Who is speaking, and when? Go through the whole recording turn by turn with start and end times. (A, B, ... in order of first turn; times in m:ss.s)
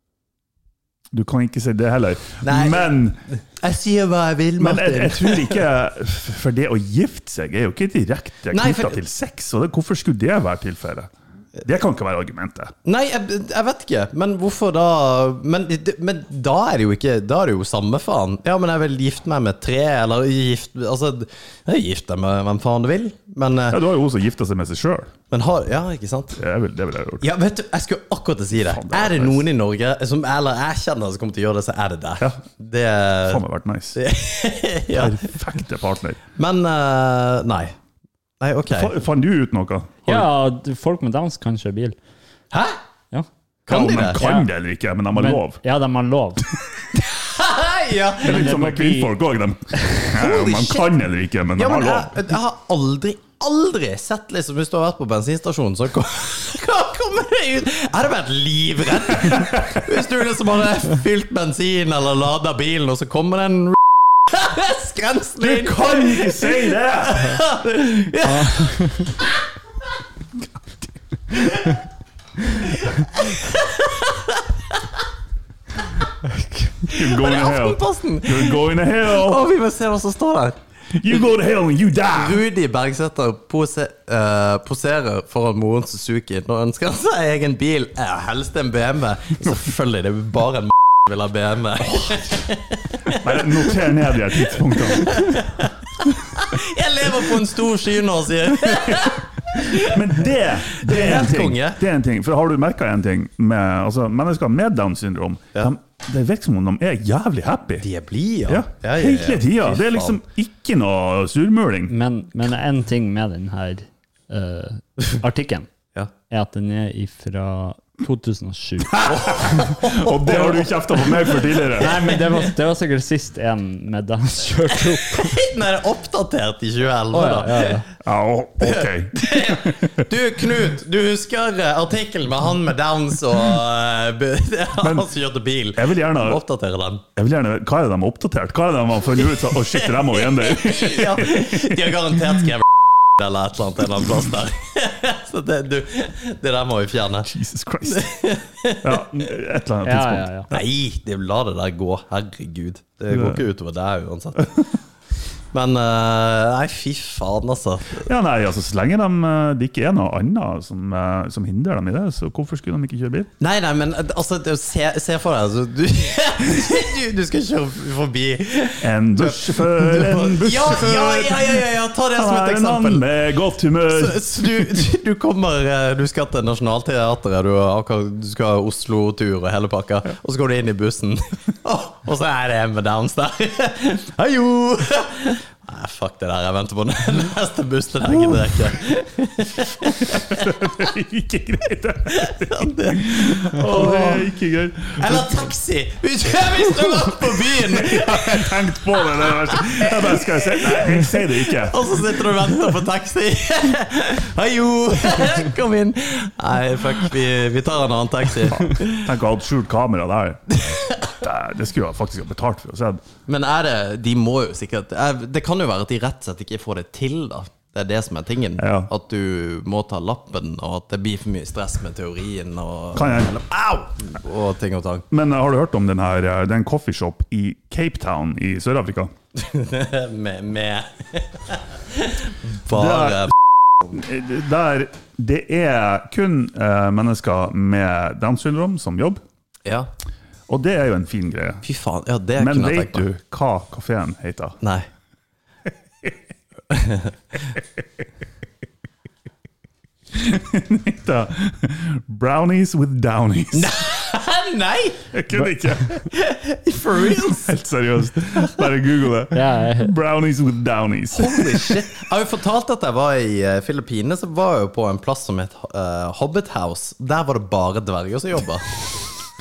0:01.1-0:03.2 A
0:02.4-0:05.6 B
0:04.6-0:11.1 A
0:08.5-0:09.0 B
0:11.6-0:12.7 A
0:12.8-0:23.8 B
0:23.7-0:25.1 A
0:25.3-0:26.4 B
0:26.4-0:27.2 A
0:27.2-0:33.4 B
0:28.6-0:29.4 A
0:33.2-0:34.0 A
0:33.9-0:35.3 B
0:34.9-0:36.2 A
0:36.4-0:37.7 B
0:38.4-0:38.9 B
0:38.7-0:40.3 A
0:40.0-0:42.0 C
0:42.5-0:42.8 B
0:43.6-0:44.2 B
0:43.7-0:45.6 A
0:44.1-0:44.5 C
0:45.1-0:46.5 C
0:47.0-0:48.6 B
0:48.2-0:52.1 A
0:48.2-0:49.1 C
0:50.1-0:50.9 B
0:51.6-1:09.4 B
0:59.2-0:59.9 A
1:05.4-1:07.4 A
1:08.2-1:09.1 C
1:11.3-1:11.7 B
1:12.5-1:15.0 B
1:16.8-1:19.5 A
1:16.9-1:20.6 B
1:20.9-1:22.4 A
1:22.1-1:41.8 B
1:31.9-1:32.4 A
1:33.0-1:35.4 A
1:36.1-1:36.6 A
1:38.5-1:47.8 A
1:47.8-1:50.2 B
1:48.5-1:51.9 A
1:51.9-1:55.7 C
1:56.3-1:59.6 C
1:58.9-2:02.1 A
1:59.0-2:02.2 B
2:01.7-2:05.4 C
2:05.1-2:07.8 B
2:07.1-2:07.8 C
2:08.0-2:10.0 A
2:08.6-2:17.0 B
2:14.8-2:15.1 A
2:15.7-2:16.4 A
2:17.2-2:22.1 A
2:19.4-2:27.3 B
2:27.2-2:28.1 A
2:27.8-2:29.0 B
2:28.8-2:30.6 A
2:29.8-2:30.5 C
2:30.5-2:34.7 B
2:33.1-2:33.4 A
2:35.5-2:38.1 B
2:38.0-2:43.3 A
2:43.4-2:53.0 B
2:48.8-2:54.8 A
2:53.9-3:10.6 B
3:08.1-3:08.5 A
3:09.8-3:15.5 A
3:12.1-3:14.3 B
3:15.0-3:29.1 B
3:16.7-3:21.9 A
3:28.5-3:33.0 A
3:30.5-3:31.1 B
3:33.3-3:45.1 B
3:38.6-3:38.9 A
3:42.9-3:43.4 A
3:45.1-3:49.1 A
3:49.3-3:53.3 B
3:52.7-3:59.2 A
3:59.6-3:59.9 B
4:00.5-4:01.6 A
4:01.6-4:03.0 B
4:02.4-4:04.6 A
4:04.6-4:04.9 B
4:06.7-4:07.1 B
4:10.1-4:13.8 A
4:13.5-4:15.1 B
4:15.1-4:16.1 A
4:15.9-4:17.5 B
4:17.0-4:21.8 A
4:19.3-4:19.9 C
4:21.1-4:28.7 B